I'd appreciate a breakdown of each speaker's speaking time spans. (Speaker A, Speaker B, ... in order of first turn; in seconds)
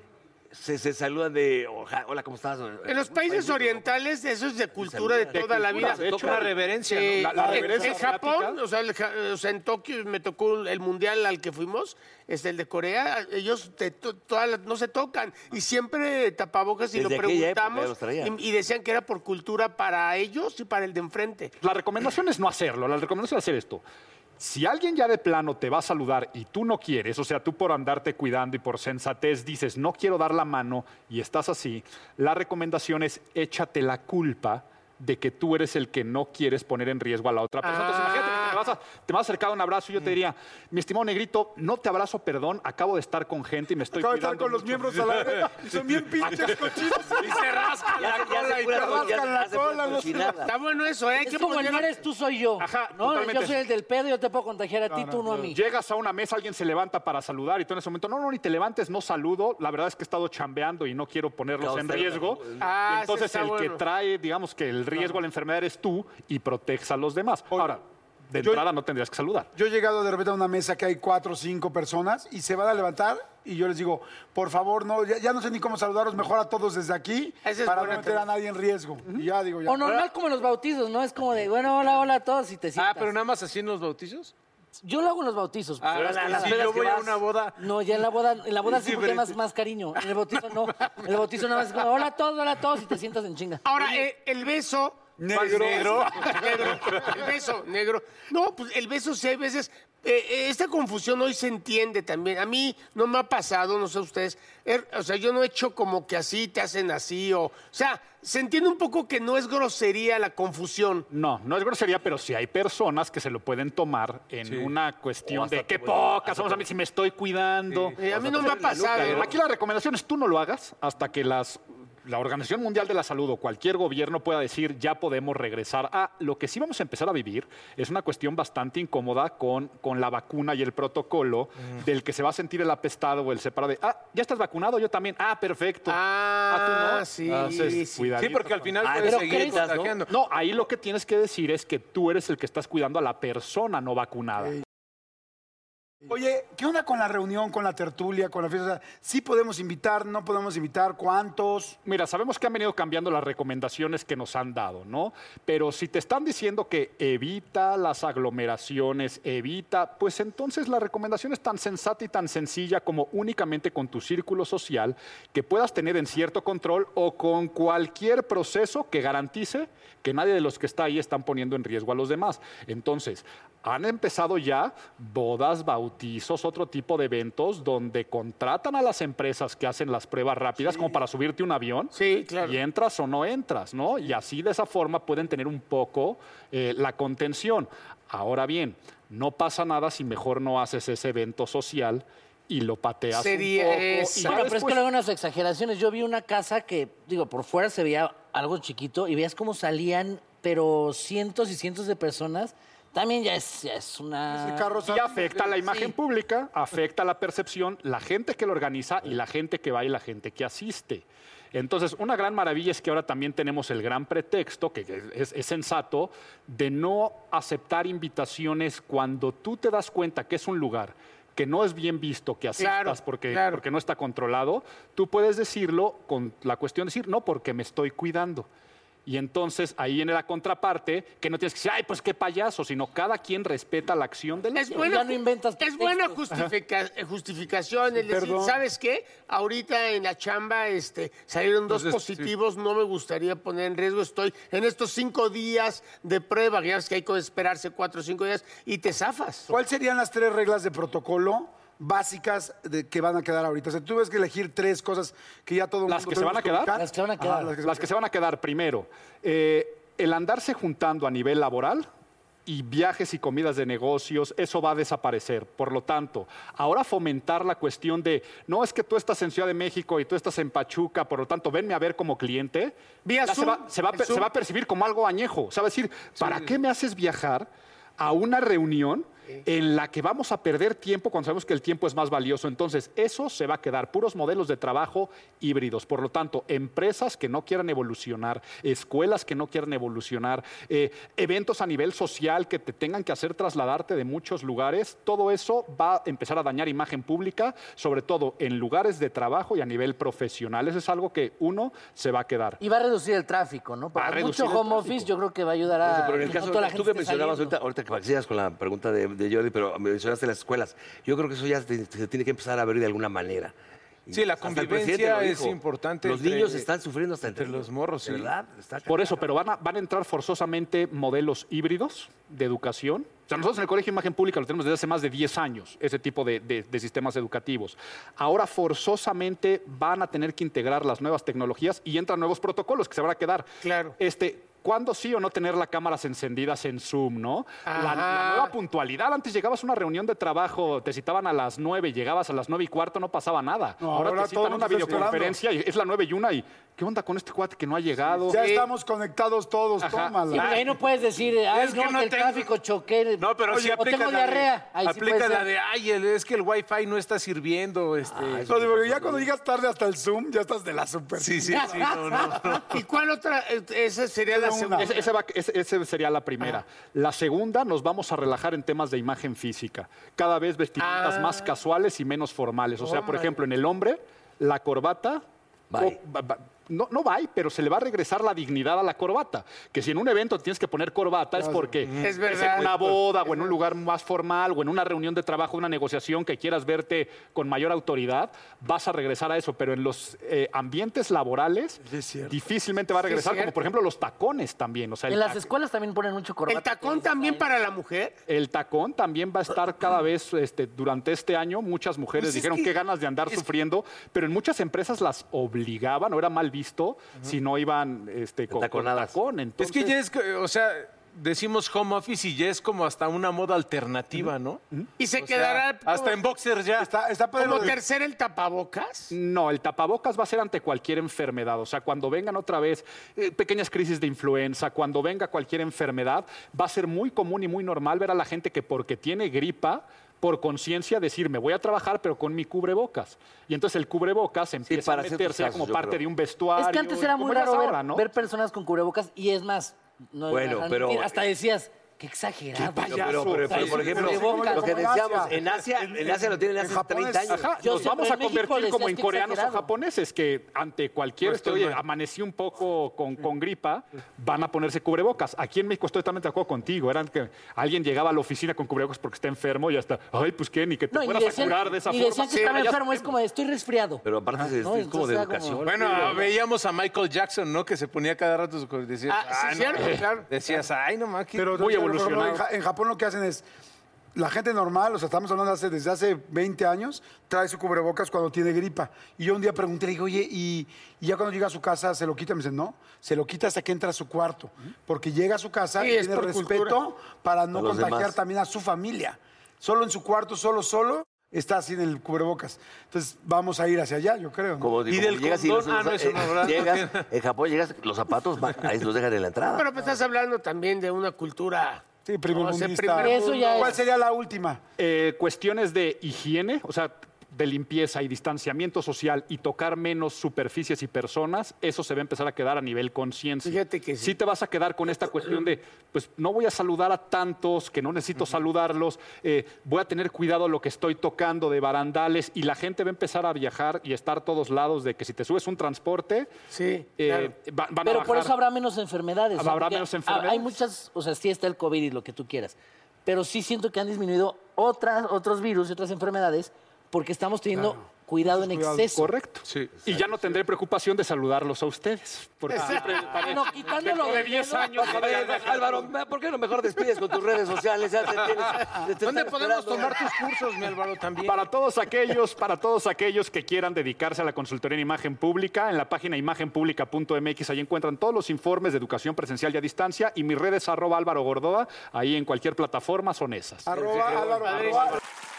Speaker A: 0.5-3.9, 4.8-6.5, 16.9-18.4, 48.0-50.5, 61.6-62.6, 85.9-87.2, 115.3-116.7, 118.0-119.3, 138.8-140.0, 305.8-313.5, 314.1-319.3, 358.1-359.3, 375.7-376.0, 408.5-409.2, 434.7-436.0, 440.3-441.2, 442.8-447.5, 464.1-466.3, 487.5-488.1, 494.6-499.7, 544.8-550.1
Speaker B: 2.9-21.6, 37.6-38.6, 50.4-52.0, 62.6-63.8, 77.4-78.3, 93.6-111.1, 118.0-119.3, 135.9-138.0, 181.9-182.6, 193.1-194.6, 222.6-223.6, 234.5-249.5, 273.1-274.3, 333.6-334.0, 337.7-338.6, 348.3-348.7, 362.6-365.1, 370.8-371.5, 372.8-373.4, 382.0-382.8, 393.0-393.6, 396.5-398.2, 415.0-416.2, 417.4-419.1, 462.3-462.7, 469.1-470.3, 485.8-486.8, 499.6-503.8, 513.4-514.2, 526.5-527.3
Speaker C: 5.3-6.5, 7.2-8.6, 21.6-23.8, 24.4-45.1, 46.2-47.2, 52.6-53.6, 55.5-69.5, 111.1-138.9, 140.1-144.6, 151.8-194.8, 204.9-228.5, 229.1-234.9, 255.9-256.8, 257.6-261.9, 262.5-302.6, 304.0-305.1, 318.9-333.5, 334.0-348.4, 349.8-350.6, 364.8-375.2, 375.8-395.5, 398.3-410.0, 419.1-438.1, 442.8-444.2, 447.3-463.1, 471.5-472.4, 504.8-526.3, 527.0-528.4, 529.4-530.5, 539.0-545.9, 551.2-563.7
Speaker D: 6.2-7.6, 45.2-45.7, 47.1-49.2, 82.8-84.3, 85.8-88.1, 88.6-89.4, 95.3-97.2, 114.5-114.7, 137.3-140.1, 241.7-242.3, 276.2-276.5, 314.1-316.7, 317.3-318.3, 351.5-352.5, 353.2-358.5, 361.2-362.8, 381.9-382.9, 409.6-414.6, 415.2-416.9, 451.2-451.8, 465.6-471.6, 494.9-497.1, 539.5-539.7, 548.5-551.4, 563.7-565.0
Speaker E: 7.3-8.1, 43.9-47.5, 48.5-50.5, 54.9-55.4, 69.5-80.0, 95.2-97.2, 146.1-151.8, 204.3-205.6, 238.0-238.6, 249.5-257.9, 343.8-345.4, 348.3-350.5, 358.5-362.3, 364.3-364.9, 416.8-417.8, 443.5-447.5, 471.4-473.4, 474.1-494.7, 502.1-504.6, 537.5-538.9, 563.7-565.0
Speaker F: 51.2-55.6, 79.7-83.1, 84.8-86.7, 87.6-93.7, 139.0-139.7, 194.2-204.8, 234.8-236.2, 256.7-257.6, 302.6-307.6, 350.3-355.5, 395.1-397.4, 436.6-444.9, 447.6-449.7, 460.9-466.2, 503.0-503.8, 527.9-539.1, 542.6-545.0